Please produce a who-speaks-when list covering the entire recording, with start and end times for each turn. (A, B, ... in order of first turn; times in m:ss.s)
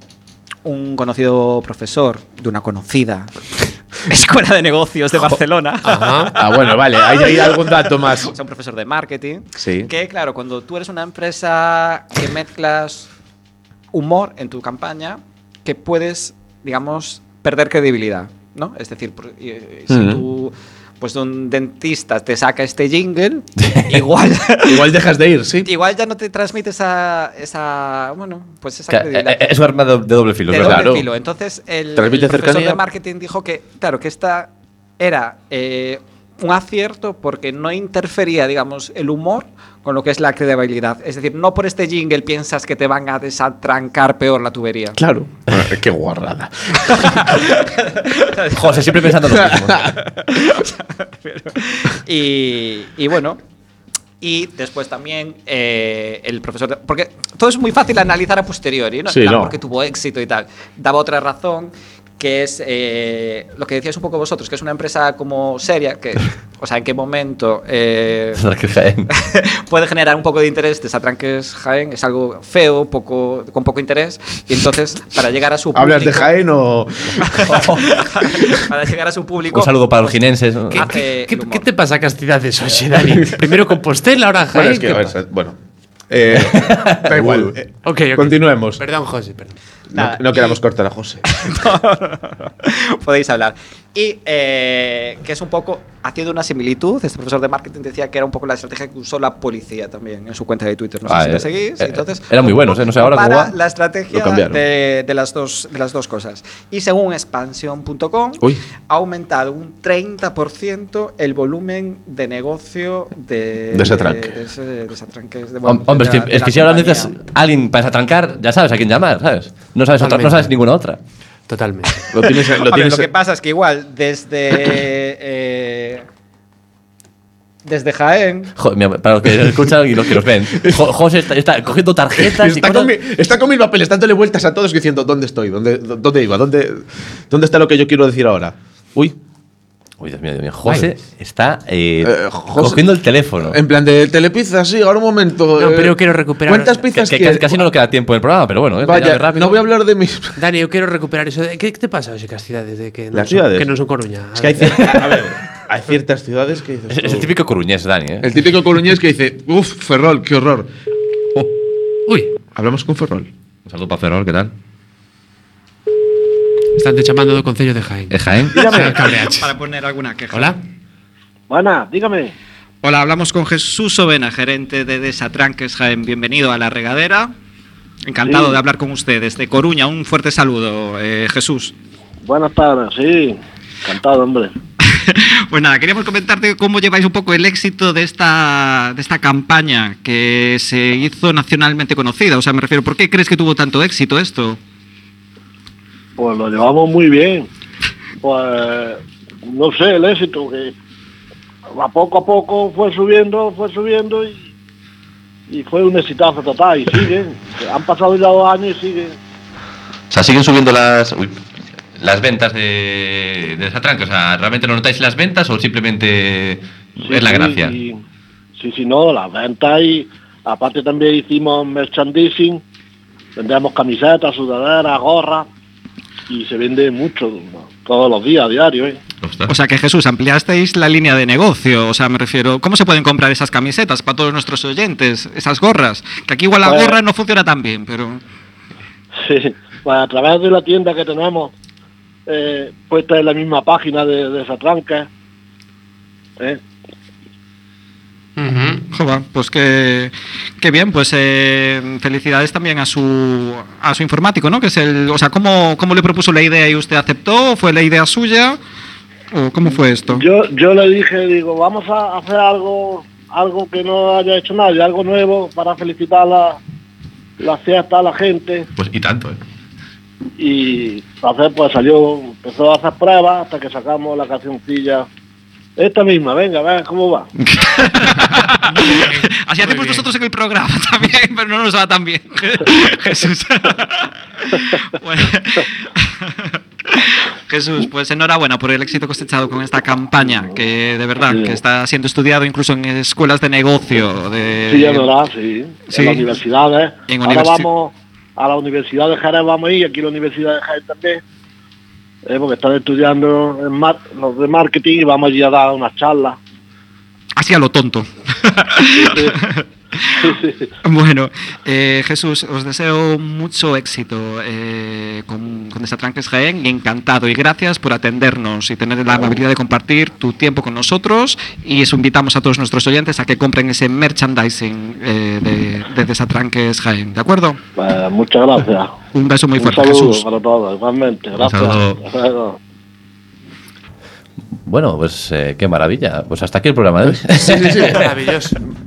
0:00.6-0:06.5 A
0:05.8-0:06.3 B
0:06.4-0:08.3 C
0:08.3-0:13.1 A
0:09.6-0:09.9 C
0:13.9-0:25.0 A
0:19.9-0:20.2 C
0:23.6-0:24.0 D
0:24.6-0:25.7 C
0:25.6-0:29.6 A
0:28.9-0:30.9 D
0:30.5-0:45.0 A
0:30.6-0:31.1 C
0:32.0-0:32.8 C
0:45.0-0:47.5 C
0:46.9-0:48.9 A
0:48.5-0:49.9 D
0:49.3-0:50.0 C
0:50.3-0:53.4 A
0:54.2-1:08.4 A
0:59.1-0:59.6 C
1:08.4-1:09.1 D
1:09.1-1:16.3 A
1:15.7-1:17.7 C
1:17.2-1:21.6 A
1:17.5-1:17.9 D
1:19.5-1:20.9 D
1:20.7-1:25.1 B
1:24.5-1:25.6 C
1:26.1-1:28.8 C
1:26.4-1:27.5 D
1:27.8-1:29.6 B
1:29.9-1:30.6 A
1:29.9-1:31.2 C
1:31.2-1:57.1 A
1:41.1-1:43.5 D
1:44.1-1:44.6 C
1:53.7-1:54.4 C
1:55.6-2:01.0 D
2:00.0-2:00.5 B
2:01.5-2:02.1 B
2:02.1-2:03.1 C
2:02.2-2:06.0 A
2:07.6-2:08.5 A
2:08.6-2:12.9 D
2:12.2-2:19.2 C
2:20.0-2:23.6 D
2:22.0-2:27.7 C
2:25.6-2:26.9 B
2:26.9-2:29.6 D
2:28.8-2:30.3 C
2:30.4-2:34.9 B
2:33.1-2:33.7 C
2:34.4-2:37.3 C
2:34.7-2:35.1 D
2:36.9-2:38.3 D
2:38.2-2:40.7 C
2:42.1-2:42.3 B
2:42.6-2:43.3 C
2:43.7-2:44.5 D
2:46.8-2:49.5 B
2:48.1-2:48.6 D
2:48.5-2:49.2 C
2:48.7-2:50.6 A
2:51.5-2:52.3 E
2:52.8-2:57.3 A
2:58.1-3:01.7 A
3:02.2-3:04.5 E
3:04.8-3:14.6 A
3:16.2-3:17.5 E
3:18.2-3:20.8 E
3:21.8-3:24.5 E
3:25.5-3:29.2 E
3:30.1-3:31.4 D
3:32.0-3:37.8 D
3:37.0-3:38.0 E
3:38.6-3:42.6 E
3:43.4-3:45.5 E
3:46.3-3:49.0 E
3:49.2-3:49.5 D
3:49.5-3:58.2 A
3:56.7-3:57.0 E
3:59.2-4:01.5 E
4:02.3-4:05.1 E
4:08.4-4:08.8 B
4:08.9-4:18.6 A
4:19.3-4:20.2 A
4:20.1-4:26.6 E
4:27.4-4:28.7 E
4:28.8-4:29.4 D
4:30.4-4:35.1 E
4:35.8-4:37.3 E
4:37.6-4:55.1 A
4:38.8-4:40.0 B
4:51.3-4:51.6 E
4:54.7-5:01.2 E
4:55.9-4:56.3 A
4:57.1-4:57.7 A
5:02.3-5:06.4 E
5:07.4-5:10.3 A
5:09.0-5:09.3 E
5:10.2-5:10.7 E
5:10.8-5:27.6 A
5:27.8-5:28.9 E
5:29.1-5:30.3 A
5:29.6-5:32.6 E
5:31.4-5:32.0 D
5:34.7-5:38.0 D
5:37.1-5:38.1 C
5:37.8-5:38.6 B